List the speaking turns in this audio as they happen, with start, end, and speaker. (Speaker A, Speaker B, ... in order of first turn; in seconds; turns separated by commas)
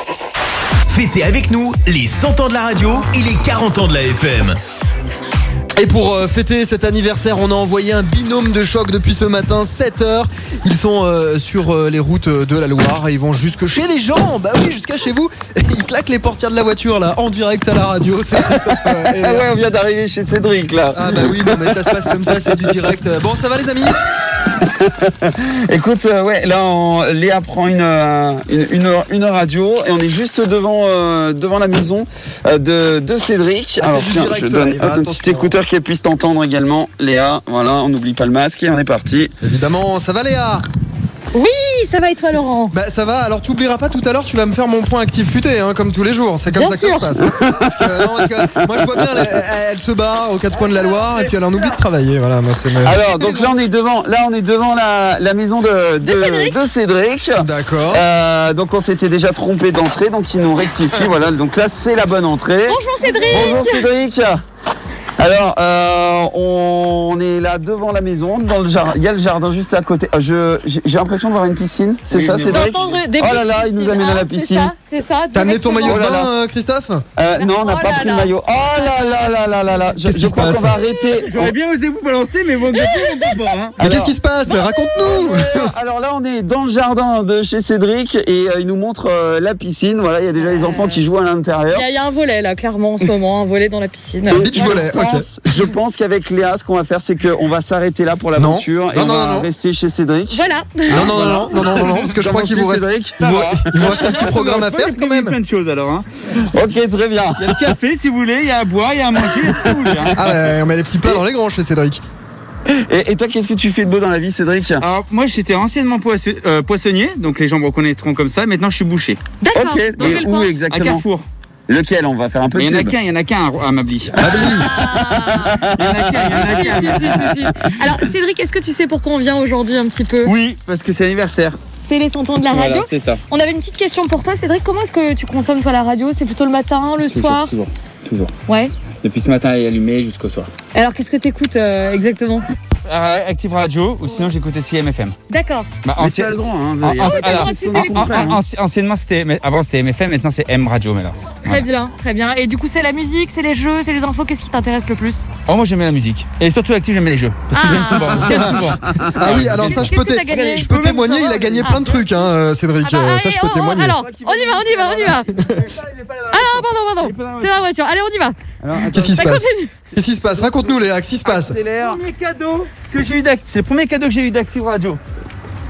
Speaker A: 0.9-4.6, Speaker B: 5.8-19.5, Speaker C: 18.5-22.9, Speaker B: 20.9-24.0, Speaker C: 24.5-39.3, Speaker B: 33.8-35.5, Speaker B: 39.4-40.6, Speaker D: 41.3-42.7, Speaker B: 42.7-53.0, Speaker D: 46.5-47.1, Speaker C: 47.2-49.4, Speaker C: 52.8-64.4, Speaker D: 53.2-53.5, Speaker D: 56.0-56.6, Speaker B: 57.4-58.0, Speaker D: 62.7-63.9, Speaker C: 65.2-74.7, Speaker E: 72.1-72.9, Speaker D: 72.4-76.0, Speaker B: 75.3-77.0, Speaker C: 75.8-76.3, Speaker C: 77.2-81.5, Speaker D: 77.3-79.7, Speaker B: 80.0-80.8, Speaker E: 81.2-83.8, Speaker D: 82.7-83.4, Speaker C: 83.8-84.1, Speaker B: 83.8-85.7, Speaker C: 85.0-91.8, Speaker D: 90.5-91.0, Speaker D: 91.7-94.8, Speaker B: 94.3-95.5, Speaker C: 94.3-104.2, Speaker B: 98.3-99.5, Speaker D: 100.3-101.0, Speaker B: 100.9-105.4, Speaker E: 103.2-106.0, Speaker C: 106.5-107.5, Speaker E: 107.4-110.3, Speaker B: 110.1-112.0, Speaker C: 112.7-114.8, Speaker E: 114.8-119.3, Speaker D: 119.4-120.5, Speaker C: 119.5-121.0, Speaker E: 120.7-121.2, Speaker C: 121.7-123.0, Speaker E: 122.5-124.4, Speaker B: 124.2-124.8, Speaker D: 124.2-125.6, Speaker C: 124.4-126.5, Speaker E: 125.7-127.3, Speaker D: 126.4-130.3, Speaker E: 130.2-131.6, Speaker D: 131.8-137.6, Speaker E: 132.5-133.2, Speaker E: 137.1-138.3, Speaker D: 138.5-138.8, Speaker E: 138.9-140.5, Speaker D: 140.7-142.5, Speaker E: 142.8-145.2, Speaker D: 145.3-145.7, Speaker E: 145.8-151.7, Speaker C: 146.0-148.4, Speaker D: 147.0-148.4, Speaker D: 151.4-155.3, Speaker E: 155.4-162.2, Speaker D: 157.5-158.4, Speaker B: 157.6-164.0, Speaker C: 158.3-159.4, Speaker D: 159.5-161.0, Speaker D: 162.8-165.4, Speaker C: 164.0-165.2, Speaker B: 165.3-165.6, Speaker E: 165.6-167.5, Speaker D: 166.3-168.4, Speaker C: 167.2-167.4, Speaker C: 168.6-169.3, Speaker B: 168.9-171.6, Speaker D: 169.0-169.7, Speaker C: 170.2-172.0, Speaker E: 171.8-175.0